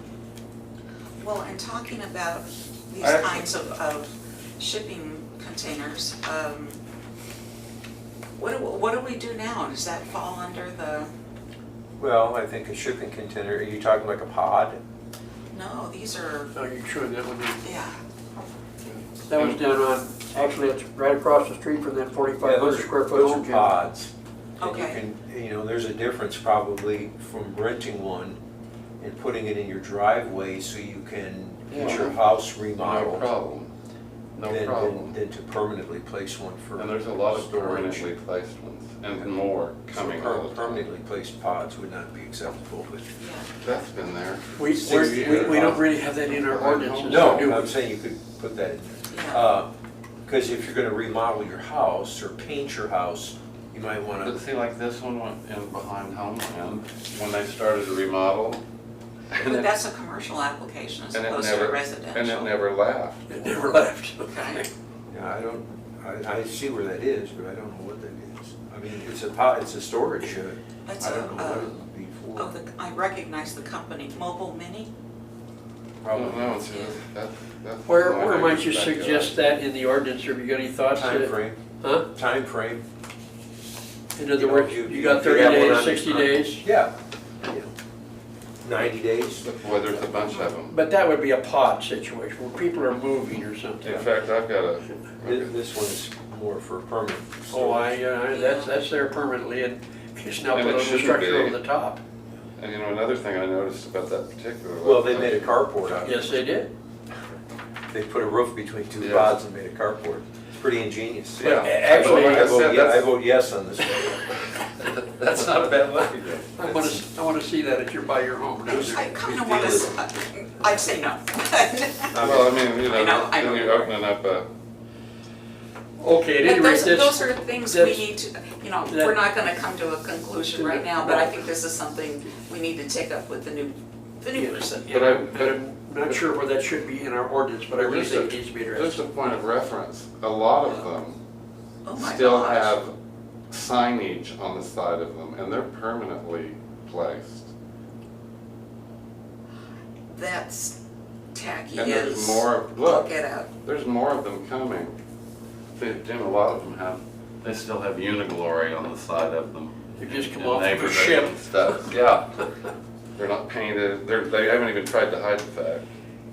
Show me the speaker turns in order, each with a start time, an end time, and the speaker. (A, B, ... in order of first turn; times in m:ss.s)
0:01.2-0:06.8 A
0:03.0-0:03.5 B
0:08.4-0:11.1 A
0:12.0-0:14.8 C
0:15.5-0:16.5 A
0:16.5-0:17.6 D
0:17.6-0:18.0 A
0:18.8-0:19.6 B
0:19.3-0:23.7 D
0:22.4-0:28.4 C
0:24.6-0:25.0 A
0:29.0-0:33.3 C
0:31.7-0:32.1 B
0:32.8-0:33.7 B
0:34.3-0:35.1 B
0:34.4-0:38.1 C
0:36.8-0:40.8 B
0:39.9-0:43.1 C
0:43.2-0:43.5 A
0:43.6-0:47.5 B
0:44.6-0:47.7 D
0:44.8-0:45.8 C
0:47.0-0:49.7 C
0:49.1-0:49.4 A
0:50.2-0:54.4 C
0:54.2-0:58.6 B
0:59.3-0:59.7 B
0:59.4-1:02.5 A
1:01.1-1:03.2 B
1:03.3-1:04.3 D
1:04.2-1:04.6 A
1:05.1-1:12.5 C
1:10.8-1:11.7 A
1:12.4-1:14.9 A
1:16.0-1:16.6 C
1:16.1-1:19.4 B
1:16.7-1:17.0 A
1:17.8-1:22.0 D
1:20.9-1:22.8 C
1:24.2-1:26.6 D
1:24.4-1:27.7 C
1:28.6-1:29.4 C
1:29.4-1:30.8 B
1:30.7-1:34.0 D
1:33.8-1:35.5 B
1:35.2-1:37.9 C
1:37.5-1:42.0 D
1:38.3-1:38.8 A
1:40.5-1:41.6 B
1:42.6-1:45.5 B
1:44.8-1:46.3 C
1:46.0-1:46.7 D
1:47.9-1:54.2 C
1:49.0-1:49.4 B
1:51.4-1:53.1 B
1:51.6-1:52.6 D
1:54.0-1:56.6 B
1:56.6-1:59.8 D
1:56.6-1:56.9 C
1:58.7-2:03.9 A
1:59.2-1:59.8 C
2:02.1-2:02.6 C
2:02.2-2:04.5 B
2:06.0-2:08.1 D
2:06.4-2:14.9 A
2:08.8-2:09.2 D
2:10.5-2:11.4 D
2:14.3-2:19.0 D
2:14.9-2:16.2 B
2:17.7-2:21.2 B
2:21.8-2:22.8 A
2:22.0-2:23.0 B
2:23.5-2:27.5 B
2:30.1-2:30.8 A
2:31.3-2:33.5 A
2:31.7-2:34.9 B
2:35.8-2:42.3 B
2:40.0-2:41.8 D
2:43.2-2:45.9 B